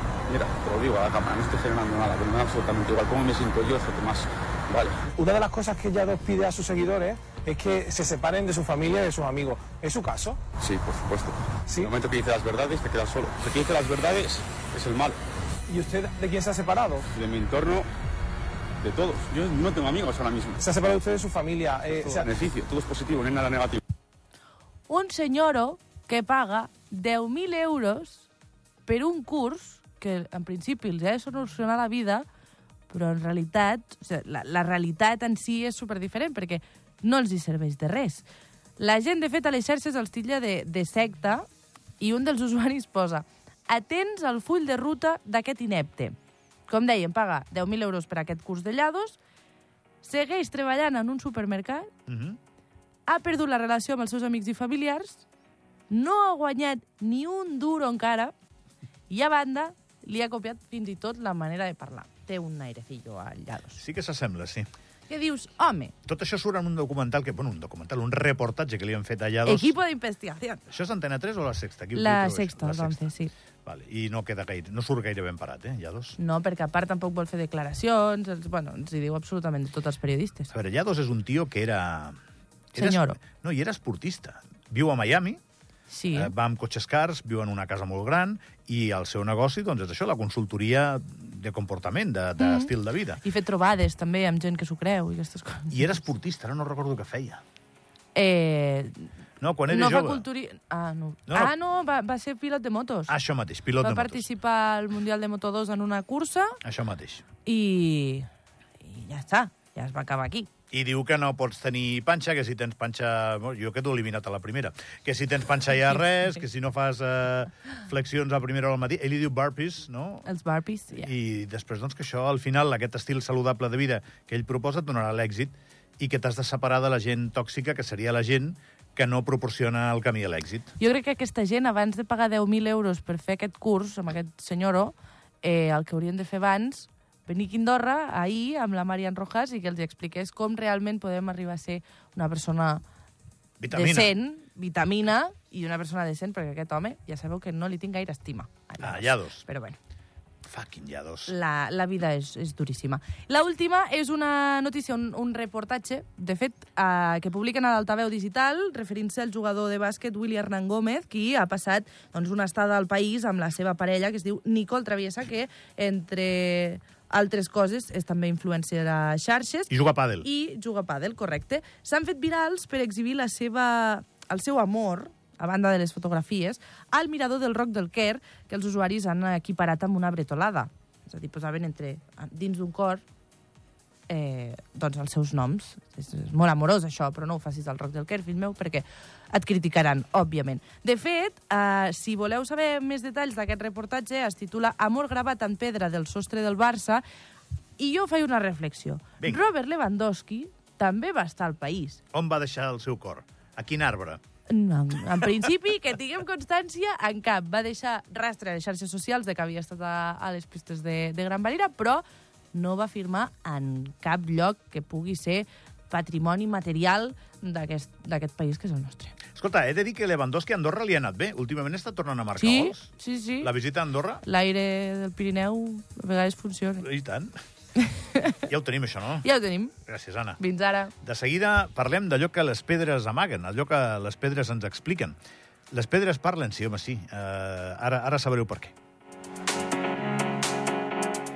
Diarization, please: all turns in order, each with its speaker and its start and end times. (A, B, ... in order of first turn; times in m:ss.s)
0:00.3-0:05.0 A
0:05.2-0:10.4 B
0:10.6-0:15.2 A
0:11.7-0:11.9 B
0:15.7-0:17.1 B
0:17.1-0:17.9 A
0:18.8-0:20.6 A
0:20.6-0:22.3 B
0:22.0-0:23.8 A
0:24.9-0:28.3 C
0:28.9-0:32.2 C
0:32.9-0:38.3 C
0:38.8-0:41.4 C
0:42.0-0:46.2 C
0:46.7-0:49.2 C
0:50.0-0:51.9 C
0:52.1-0:52.4 D
0:53.1-0:55.2 C
0:55.9-0:58.3 C
0:59.1-1:03.8 C
1:03.8-1:04.7 D
1:05.1-1:05.9 C
1:06.1-1:09.8 D
1:09.4-1:10.6 C
1:10.7-1:13.1 D
1:11.9-1:13.3 C
1:13.6-1:16.2 D
1:16.2-1:20.5 C
1:20.5-1:22.2 D
1:22.7-1:25.4 D
1:22.8-1:23.2 C
1:25.9-1:26.3 C
1:26.1-1:33.2 D
1:32.4-1:32.7 C
1:33.2-1:36.0 C
1:35.7-1:37.4 D
1:38.2-1:39.1 C
1:39.4-1:40.3 D
1:39.7-1:43.1 C
1:41.3-1:41.5 D
1:43.1-1:44.2 D
1:43.8-1:46.6 C
1:46.6-1:47.2 D
1:47.4-1:48.3 C
1:48.8-1:50.5 C
1:50.7-2:00.3 D
2:00.3-2:01.1 C
2:01.0-2:10.7 D
2:10.8-2:22.8 C
2:23.6-2:24.2 D
2:23.7-2:29.8 C
2:28.8-2:29.4 D
2:30.4-2:31.3 D
2:31.3-2:49.7 C
2:49.7-2:50.3 D
2:50.2-3:03.0 C
3:04.1-3:17.0 C
3:17.8-3:22.0 C
3:22.1-3:24.2 D
3:24.5-3:39.2 C
3:39.4-3:42.9 D
3:42.4-3:43.5 C
3:43.4-3:44.2 D
3:44.2-3:46.9 C
3:46.8-3:47.3 D
3:47.8-3:48.4 C
3:48.4-3:49.3 D
3:49.2-3:49.7 C
3:49.9-3:50.4 D
3:50.4-3:50.9 C
3:51.0-3:55.2 D
3:55.7-3:58.8 D